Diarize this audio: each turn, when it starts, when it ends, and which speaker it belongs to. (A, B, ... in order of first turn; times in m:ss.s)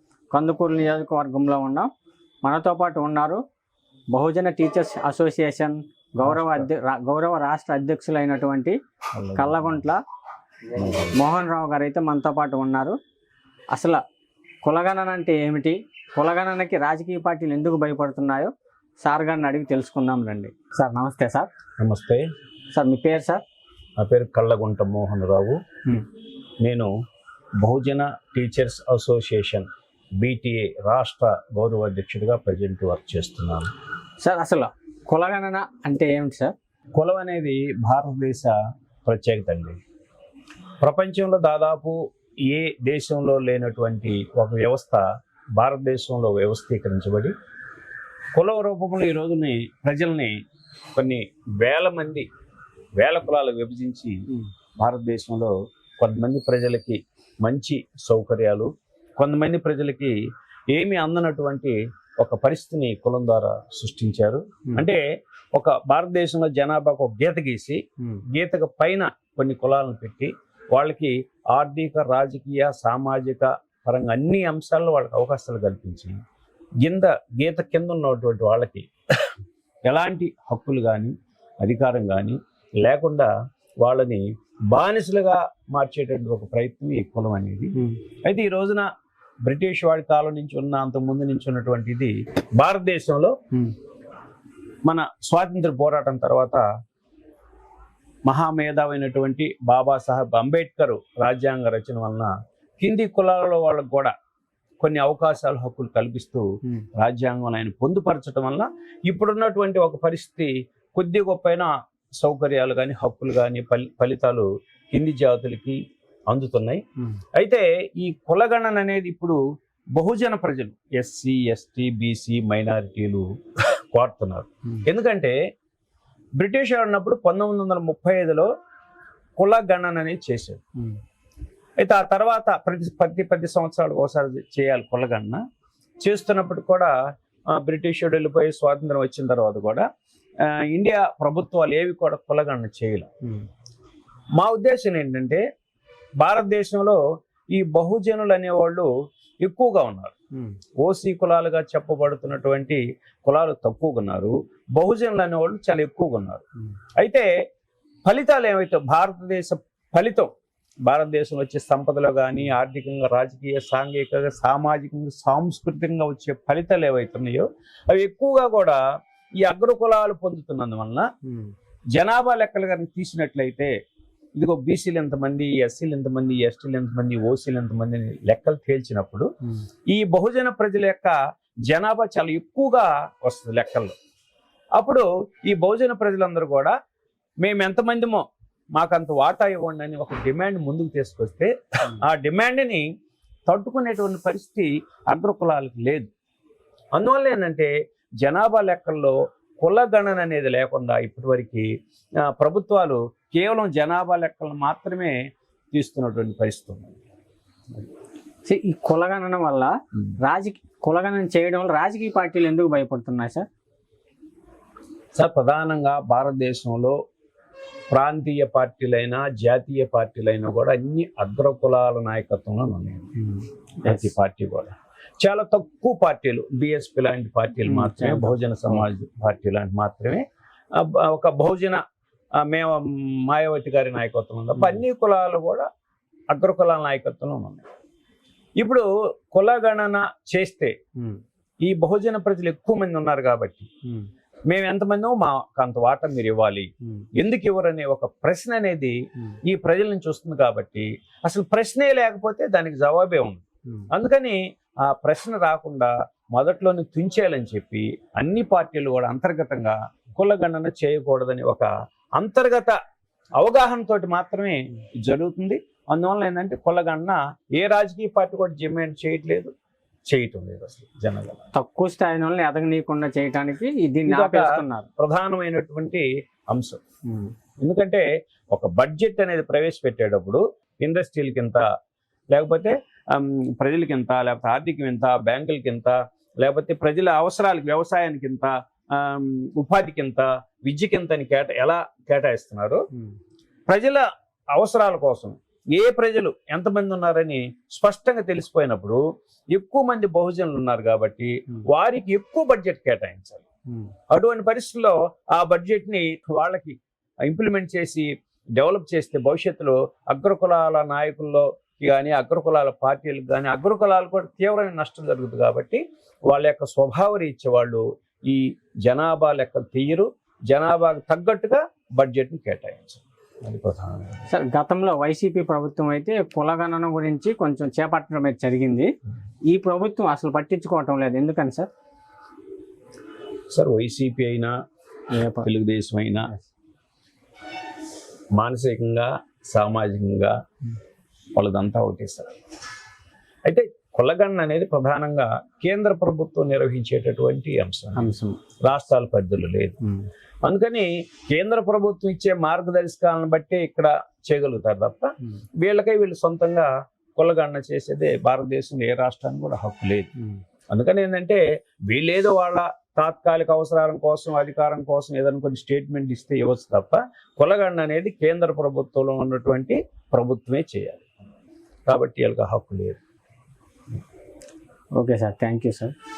0:00.3-0:01.9 A
0:02.4-0:03.4 A
0:04.1-0:08.8 A
0:06.2-0:06.7 B
0:09.2-0:09.8 B
0:09.3-0:10.0 A
0:10.7-0:11.2 B
0:11.1-0:13.0 A
0:13.7-0:14.0 A
0:14.6-0:21.5 A
0:21.8-0:22.2 B
0:22.7-0:23.4 A
0:24.0-0:25.6 B
0:26.6-0:26.9 B
0:27.6-0:29.7 B
0:30.2-0:33.7 B
0:34.2-0:36.5 A
0:37.0-0:39.8 B
0:40.8-0:45.0 B
0:45.6-0:47.3 B
0:48.3-0:50.3 B
0:50.9-0:52.3 B
0:53.0-0:54.2 B
0:54.8-1:00.1 B
1:00.7-1:05.0 B
1:05.5-1:07.8 B
1:08.3-1:16.2 B
1:16.8-1:19.3 B
1:19.9-1:23.3 B
1:23.8-1:27.7 B
1:27.7-1:28.0 A
1:28.2-1:28.8 B
1:29.4-1:33.3 B
1:34.8-1:36.6 B
1:38.3-1:44.1 B
1:44.8-1:56.8 B
1:57.3-1:59.4 B
2:00.0-2:03.2 B
2:03.9-2:05.3 B
2:06.4-2:08.5 B
2:09.4-2:10.6 B
2:11.8-2:15.4 B
2:16.0-2:16.9 B
2:17.5-2:19.8 B
2:20.4-2:23.1 B
2:24.4-2:25.4 B
2:26.2-2:27.0 B
2:27.5-2:28.9 B
2:29.4-2:30.1 B
2:30.8-2:36.4 B
2:37.0-2:37.3 B
2:38.0-2:40.3 B
2:40.8-2:48.8 B
2:49.4-2:51.1 B
2:51.2-2:51.5 A
2:52.0-2:53.7 B
2:54.4-2:59.3 B
2:59.9-3:01.2 B
3:01.7-3:03.9 B
3:04.8-3:06.7 B
3:07.4-3:08.2 B
3:08.8-3:12.8 B
3:13.5-3:16.1 B
3:16.9-3:21.7 B
3:22.3-3:25.2 B
3:25.7-3:27.0 B
3:28.4-3:33.4 A
3:35.1-3:37.0 B
3:37.9-3:43.1 B
3:43.2-3:44.1 A
3:43.8-3:50.2 B
3:47.6-3:48.8 A
3:50.7-3:51.8 B
3:52.4-3:55.6 B
3:56.3-3:57.6 B
3:58.6-4:00.7 B
4:01.0-4:01.2 A
4:01.6-4:03.7 B
4:04.5-4:22.8 B
4:23.4-4:29.5 B
4:30.1-4:31.5 B
4:31.5-4:34.9 A
4:34.1-4:36.8 B
4:37.1-4:37.3 A
4:37.6-4:41.6 B
4:42.3-4:52.8 B
4:53.7-4:54.0 B
4:54.5-4:59.0 B
4:59.5-5:03.4 B
5:04.1-5:24.2 B
5:24.3-5:28.9 A
5:29.5-5:31.7 A
5:33.5-5:34.5 B
5:35.1-5:35.5 A
5:35.4-5:36.3 B
5:38.3-5:40.3 B
5:41.3-5:42.3 B
5:43.4-5:48.1 B
5:47.9-5:48.4 A
5:48.6-5:49.8 B
5:50.4-5:55.1 B
5:55.6-6:00.1 B
6:00.7-6:11.0 B
6:11.8-6:13.0 B
6:14.9-6:15.9 A